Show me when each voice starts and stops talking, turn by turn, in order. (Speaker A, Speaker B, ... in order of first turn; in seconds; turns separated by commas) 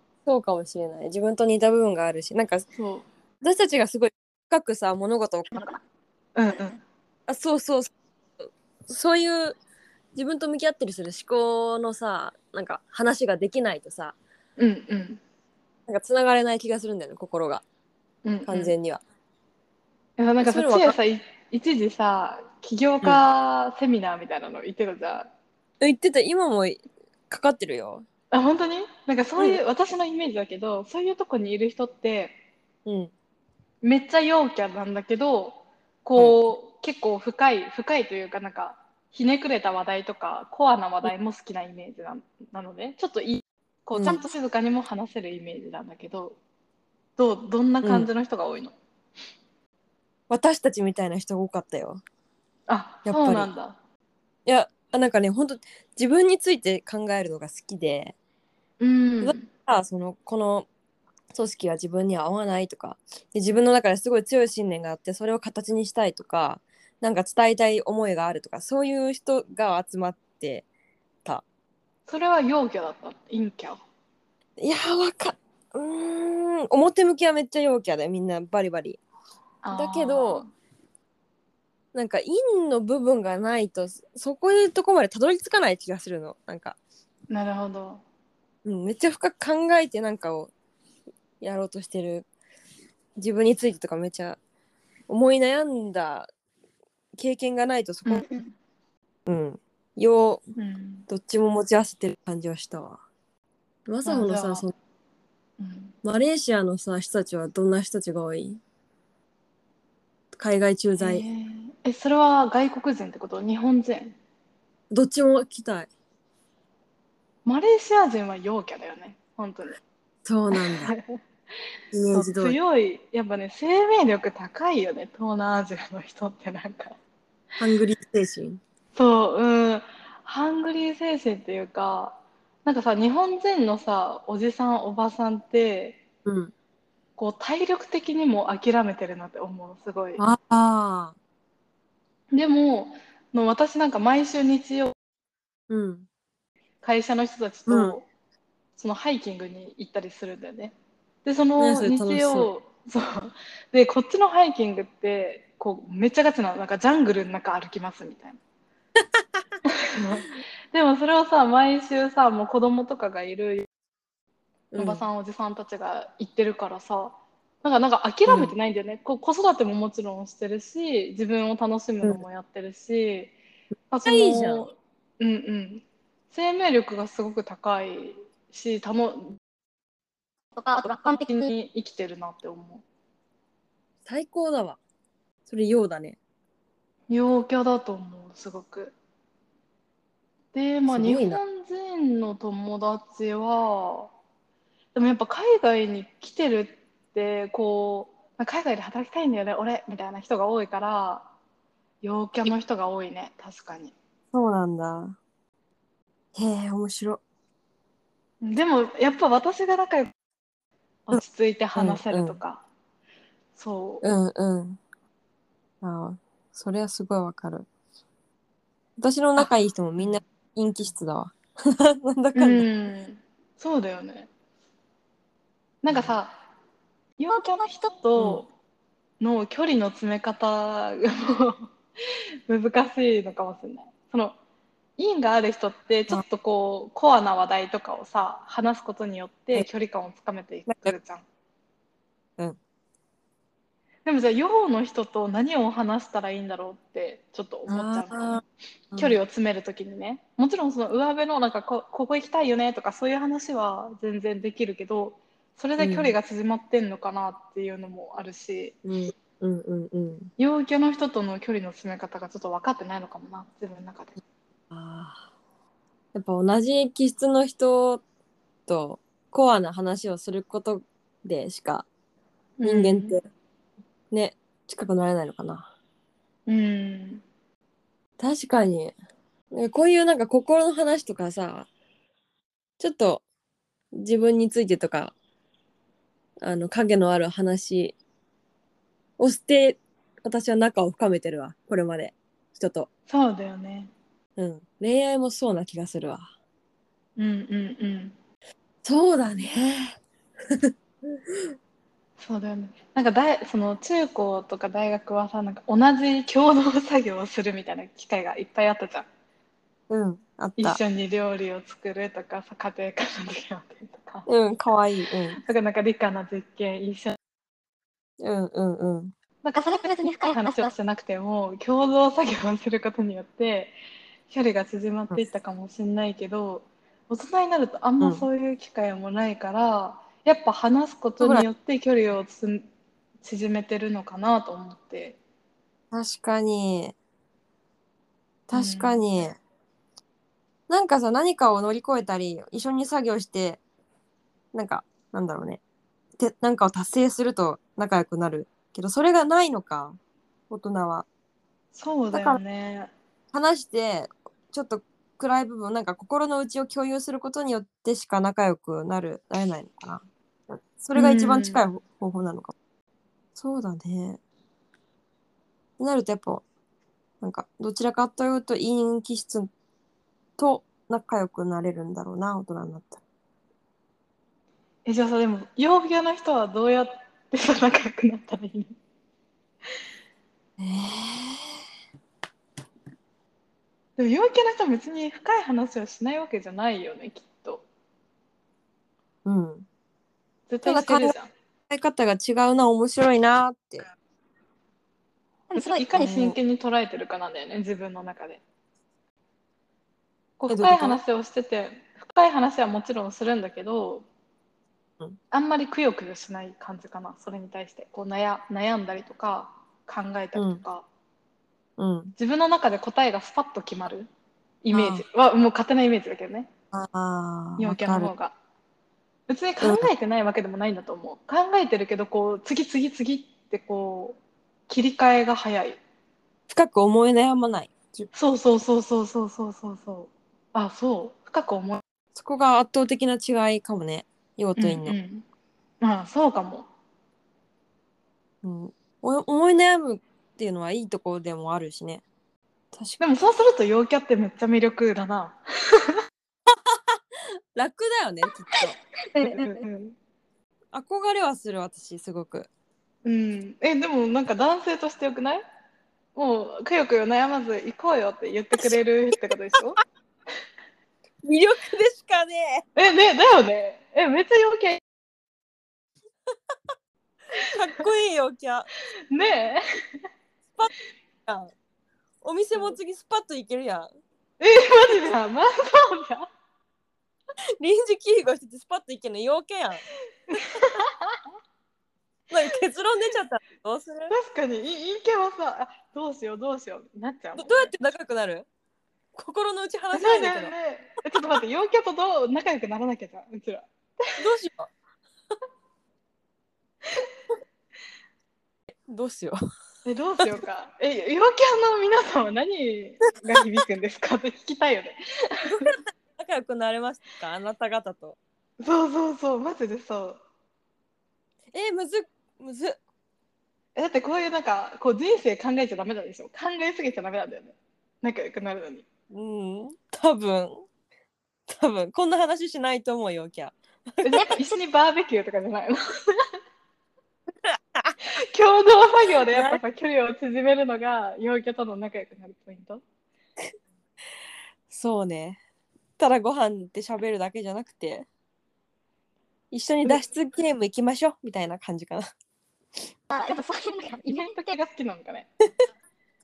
Speaker A: 0.3-2.7, Speaker B: 2.8-3.1, Speaker A: 3.4-5.7, Speaker B: 6.4-6.8, Speaker A: 7.3-7.9, Speaker A: 8.4-9.6, Speaker A: 10.2-14.2, Speaker B: 14.6-15.2, Speaker A: 15.9-17.6, Speaker B: 18.2-18.7, Speaker A: 18.4-19.0, Speaker B: 20.2-25.3, Speaker A: 20.4-21.0, Speaker A: 25.8-28.1, Speaker B: 28.3-32.4, Speaker A: 32.9-33.1, Speaker B: 33.8-46.4, Speaker A: 36.2-36.5, Speaker A: 43.9-44.2, Speaker B: 47.2-48.8, Speaker A: 47.8-48.1, Speaker A: 50.3-52.0, Speaker B: 52.7-53.8, Speaker A: 53.1-53.5, Speaker A: 54.5-58.1, Speaker B: 58.8-59.5, Speaker A: 59.2-60.7, Speaker A: 61.3-70.7, Speaker B: 72.1-73.8, Speaker A: 74.6-79.0, Speaker B: 79.6-80.5, Speaker A: 79.7-80.5, Speaker A: 81.9-86.8, Speaker B: 87.3-88.0, Speaker A: 88.7-90.5, Speaker A: 91.4-92.3, Speaker A: 93.2-94.4, Speaker A: 95.1-96.3, Speaker A: 97.2-98.2, Speaker B: 98.1-98.5, Speaker A: 99.3-100.4, Speaker B: 100.6-101.1, Speaker A: 101.1-103.0, Speaker A: 103.9-104.7, Speaker B: 104.1-104.7, Speaker B: 105.6-106.0, Speaker A: 106.0-108.6, Speaker A: 110.3-111.2, Speaker B: 111.0-114.2, Speaker A: 114.9-115.9, Speaker B: 117.5-119.8, Speaker A: 120.2-120.9, Speaker B: 120.5-121.1, Speaker A: 121.9-122.6, Speaker B: 122.1-127.0, Speaker A: 127.6-128.6, Speaker B: 128.9-136.0, Speaker A: 136.2-136.5, Speaker B: 137.2-140.2, Speaker A: 140.2-141.2, Speaker B: 142.3-144.9, Speaker A: 145.7-146.1, Speaker B: 146.8-148.1, Speaker A: 147.7-148.0, Speaker B: 148.8-158.4, Speaker A: 151.6-152.5, Speaker B: 159.8-163.7, Speaker A: 164.7-165.0, Speaker B: 164.8-173.3, Speaker A: 168.3-168.5, Speaker B: 173.9-179.4, Speaker A: 174.0-174.7, Speaker C: 180.6-181.4, Speaker B: 180.8-182.8, Speaker A: 184.1-184.8, Speaker A: 185.5-186.2, Speaker B: 187.1-188.9, Speaker B: 190.5-194.1, Speaker A: 190.9-191.4, Speaker B: 194.9-201.3, Speaker B: 202.0-203.9, Speaker A: 204.3-205.2, Speaker A: 206.3-207.2, Speaker B: 208.4-210.1, Speaker B: 211.1-212.6, Speaker A: 211.8-212.4, Speaker B: 213.6-214.1, Speaker A: 214.0-214.8, Speaker A: 215.8-217.7, Speaker A: 219.0-222.7, Speaker B: 219.4-220.2, Speaker B: 222.3-224.3, Speaker B: 225.8-226.4, Speaker B: 227.2-228.5, Speaker C: 227.3-227.9, Speaker A: 228.2-228.4, Speaker B: 229.2-231.7, Speaker B: 232.5-234.4, Speaker B: 235.0-241.2, Speaker A: 240.7-240.9, Speaker B: 244.1-248.4, Speaker A: 247.7-249.2, Speaker B: 249.0-258.8, Speaker A: 255.8-256.2, Speaker A: 258.9-260.3, Speaker B: 260.4-264.2, Speaker A: 264.7-265.2, Speaker A: 266.1-268.0, Speaker A: 268.7-271.9, Speaker B: 272.6-273.2, Speaker A: 272.6-273.2, Speaker A: 274.1-275.7, Speaker B: 276.5-277.2, Speaker A: 278.2-278.9, Speaker A: 279.5-281.7, Speaker A: 282.8-283.2, Speaker A: 283.9-285.1, Speaker A: 286.4-287.9, Speaker A: 289.2-292.9, Speaker B: 293.1-293.9, Speaker A: 294.4-296.3, Speaker B: 297.2-298.1, Speaker A: 298.8-301.5, Speaker B: 302.2-309.1, Speaker A: 309.9-310.8, Speaker B: 310.6-314.3, Speaker A: 314.3-315.4, Speaker B: 315.4-317.2, Speaker A: 318.2-319.1, Speaker B: 319.4-323.7, Speaker C: 319.6-320.7, Speaker B: 324.3-332.7, Speaker A: 328.0-328.3, Speaker A: 331.2-331.4, Speaker B: 333.2-335.2, Speaker A: 335.9-336.9, Speaker A: 338.5-339.4, Speaker B: 338.5-339.0, Speaker A: 340.7-343.6, Speaker A: 344.5-345.6, Speaker A: 346.2-350.0, Speaker A: 350.5-351.1, Speaker B: 351.7-352.9, Speaker A: 352.1-352.4, Speaker A: 353.3-362.5, Speaker B: 360.9-361.6, Speaker A: 363.4-364.2, Speaker A: 365.8-366.4, Speaker A: 367.2-369.5, Speaker A: 370.4-373.0, Speaker B: 374.9-378.8, Speaker A: 380.6-381.6, Speaker B: 384.0-387.6, Speaker A: 389.2-389.7, Speaker B: 390.5-391.3, Speaker A: 390.7-391.1, Speaker A: 391.7-393.9, Speaker C: 395.5-396.1, Speaker B: 395.6-398.4, Speaker A: 396.0-396.4, Speaker B: 400.4-404.1, Speaker A: 400.5-401.0, Speaker B: 405.3-410.9, Speaker A: 410.4-410.6, Speaker A: 411.8-412.1, Speaker B: 412.2-414.1, Speaker B: 414.6-416.5, Speaker A: 414.7-415.0, Speaker A: 416.7-418.1, Speaker B: 417.6-418.4, Speaker B: 419.3-425.8, Speaker A: 419.6-419.9, Speaker A: 426.5-428.1, Speaker B: 428.1-431.8, Speaker A: 432.1-435.0, Speaker B: 434.6-435.2, Speaker B: 435.8-436.7, Speaker A: 438.4-442.0, Speaker A: 442.7-443.0, Speaker B: 443.0-446.0, Speaker A: 446.5-447.0, Speaker A: 447.6-448.8, Speaker C: 449.1-449.6, Speaker B: 449.2-450.0, Speaker A: 450.7-452.5, Speaker B: 453.1-455.4, Speaker B: 456.1-459.8, Speaker A: 461.2-462.7, Speaker B: 462.8-464.8, Speaker A: 467.4-468.7, Speaker B: 469.1-469.6, Speaker A: 471.3-471.5, Speaker A: 472.2-473.9, Speaker B: 474.4-476.3, Speaker A: 477.6-479.9, Speaker B: 480.3-481.2, Speaker A: 482.3-484.1, Speaker B: 484.1-487.7, Speaker A: 487.3-488.5, Speaker A: 489.1-490.5, Speaker B: 489.9-494.2, Speaker A: 494.2-494.7, Speaker A: 498.9-499.4, Speaker B: 499.9-505.8, Speaker A: 505.5-508.2, Speaker B: 508.6-510.2, Speaker A: 511.5-512.8, Speaker B: 513.8-518.9, Speaker A: 519.1-520.6, Speaker A: 521.5-524.4, Speaker B: 524.0-525.8, Speaker A: 527.4-528.0, Speaker B: 528.1-532.8, Speaker A: 529.3-529.6, Speaker A: 534.7-535.4, Speaker A: 536.0-538.1, Speaker A: 539.5-542.1, Speaker C: 543.1-544.5, Speaker B: 543.2-545.5